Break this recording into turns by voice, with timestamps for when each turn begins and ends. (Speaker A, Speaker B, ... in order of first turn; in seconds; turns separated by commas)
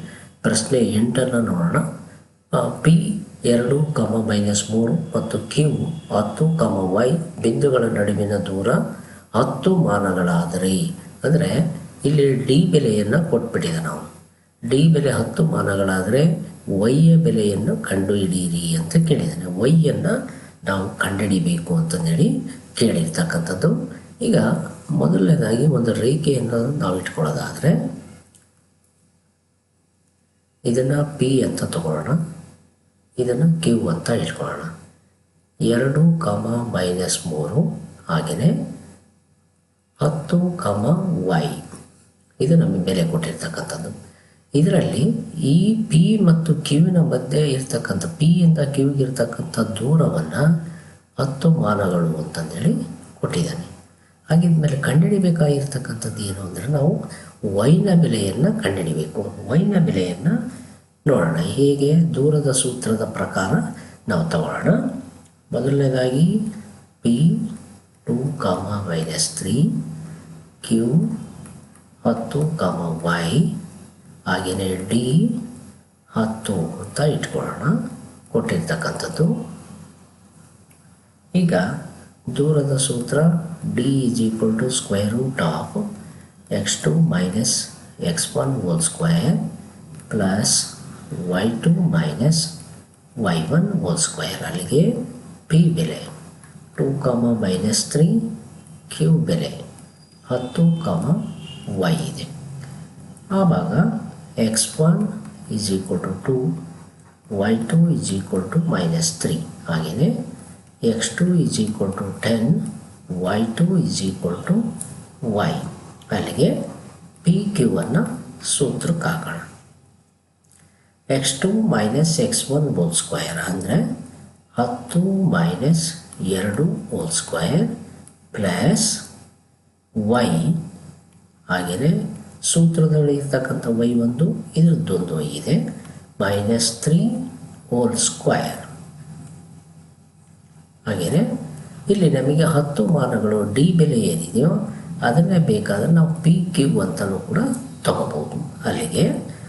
Speaker A: 0.4-1.8, Speaker A: 2.5-8.8, Speaker A: 9.4-14.1, Speaker A: 14.7-24.5, Speaker A: 25.0-27.8, Speaker A: 30.7-32.2, Speaker A: 33.2-34.7, Speaker A: 35.7-38.5, Speaker A: 40.0-41.7, Speaker A: 42.4-43.9, Speaker A: 44.6-50.5, Speaker A: 51.2-53.7, Speaker A: 54.3-57.0, Speaker A: 57.5-60.4, Speaker A: 61.0-64.8, Speaker A: 65.5-66.4, Speaker A: 67.0-67.5, Speaker A: 68.0-69.8, Speaker A: 70.6-71.1, Speaker A: 72.0-73.5, Speaker A: 74.3-75.4, Speaker A: 76.1-77.8, Speaker A: 78.3-79.3, Speaker A: 81.3-81.7, Speaker A: 82.3-85.9, Speaker A: 86.5-89.4, Speaker A: 90.1-92.5, Speaker A: 93.2-95.0, Speaker A: 95.5-96.1, Speaker A: 96.8-98.3, Speaker A: 98.9-99.6, Speaker A: 100.3-101.2, Speaker A: 101.7-102.3, Speaker A: 103.3-103.8, Speaker A: 104.4-106.4, Speaker A: 107.4-110.1, Speaker A: 110.8-112.6, Speaker A: 113.2-114.6, Speaker A: 115.2-116.5, Speaker A: 117.2-119.4, Speaker A: 121.1-123.8, Speaker A: 124.5-127.7, Speaker A: 128.3-129.0, Speaker A: 130.0-130.6, Speaker A: 131.5-135.6, Speaker A: 136.2-137.1, Speaker A: 137.7-138.7, Speaker A: 140.9-141.2, Speaker A: 141.9-149.1